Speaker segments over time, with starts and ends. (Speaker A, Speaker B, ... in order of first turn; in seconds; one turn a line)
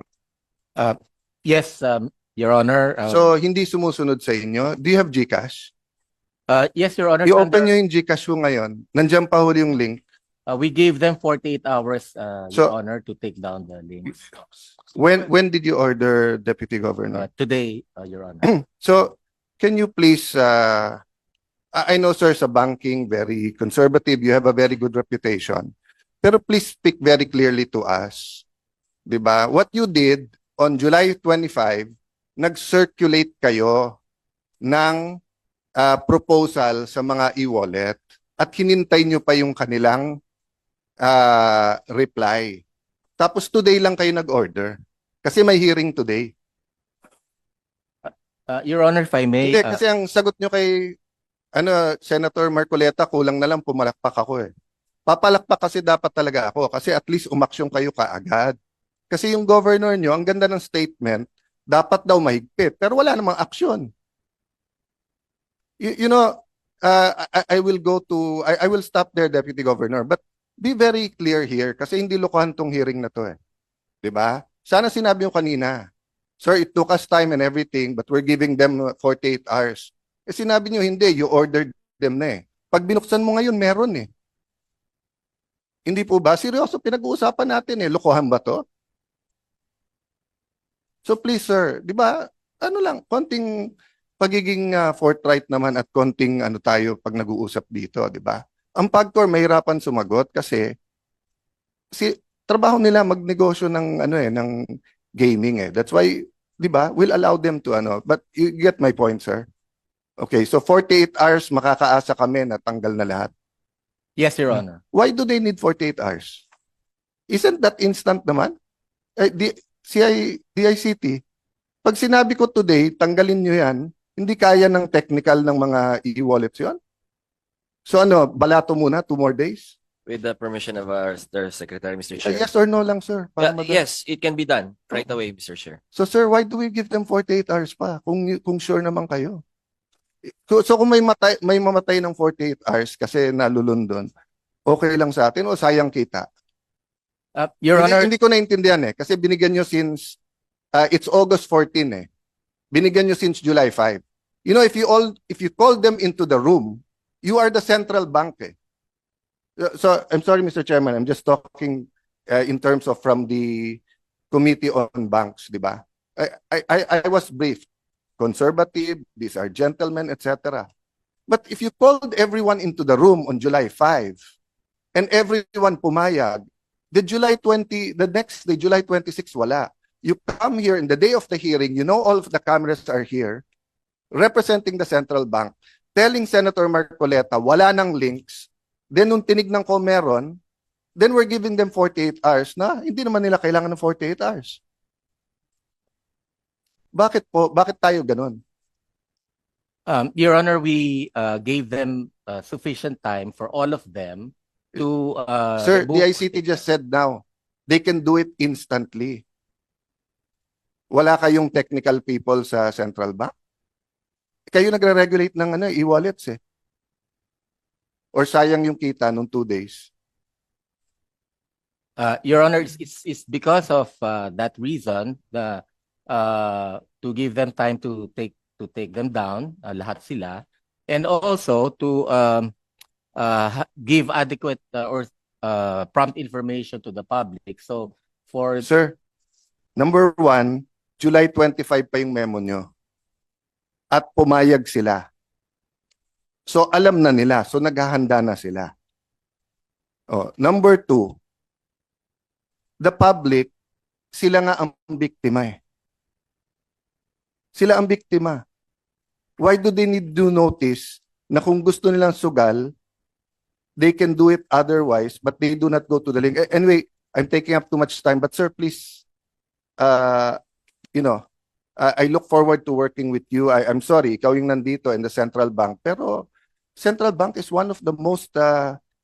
Speaker A: 0.8-3.3
Speaker B: 3.1-5.7
Speaker A: 6.5-7.7
Speaker B: 7.2-10.0
Speaker A: 10.5-14.1
Speaker B: 14.9-17.2
Speaker A: 17.1-18.5
Speaker B: 18.4-21.0
Speaker B: 21.7-25.7
Speaker B: 26.2-28.4
Speaker B: 29.1-34.0
Speaker B: 34.6-35.2
Speaker B: 35.8-40.1
Speaker B: 41.0-42.6
Speaker B: 43.2-46.3
Speaker A: 48.0-49.8
Speaker B: 49.4-50.9
Speaker B: 51.5-54.5
Speaker B: 55.1-58.5
Speaker B: 59.1-63.9
Speaker B: 65.8-73.3
Speaker B: 74.0-75.8
Speaker B: 76.4-84.1
Speaker B: 85.9-88.6
Speaker B: 91.0-100.7
Speaker B: 101.9-109.4
Speaker B: 110.2-113.3
Speaker A: 114.2-114.8
Speaker B: 114.9-116.4
Speaker B: 117.3-118.5
Speaker B: 119.2-121.2
Speaker B: 121.8-126.8
Speaker B: 127.9-129.7
Speaker C: 130.1-132.5
Speaker B: 132.2-133.8
Speaker C: 133.4-135.8
Speaker B: 135.9-139.4
Speaker B: 140.5-144.1
Speaker B: 144.7-146.2
Speaker A: 147.3-148.1
Speaker B: 147.8-150.2
Speaker B: 150.7-152.1
Speaker B: 152.7-158.6
Speaker B: 159.6-167.7
Speaker B: 168.2-170.7
Speaker B: 171.3-174.2
Speaker B: 174.9-176.4
Speaker B: 176.9-183.4
Speaker B: 184.1-190.4
Speaker B: 191.0-194.6
Speaker B: 196.9-198.4
Speaker A: 199.9-206.6
Speaker B: 205.6-209.2
Speaker B: 210.9-213.3
Speaker B: 214.5-216.4
Speaker B: 218.1-219.9
Speaker A: 222.0-232.5
Speaker A: 233.2-238.7
Speaker B: 238.6-239.0
Speaker B: 239.8-242.7
Speaker B: 243.9-245.0
Speaker B: 246.5-248.7
Speaker B: 250.1-251.1
Speaker B: 252.8-253.5
Speaker B: 254.1-255.6
Speaker B: 257.5-258.4
Speaker B: 259.4-262.7
Speaker B: 263.8-269.0
Speaker B: 269.8-270.4
Speaker B: 270.9-271.2
Speaker B: 271.8-278.8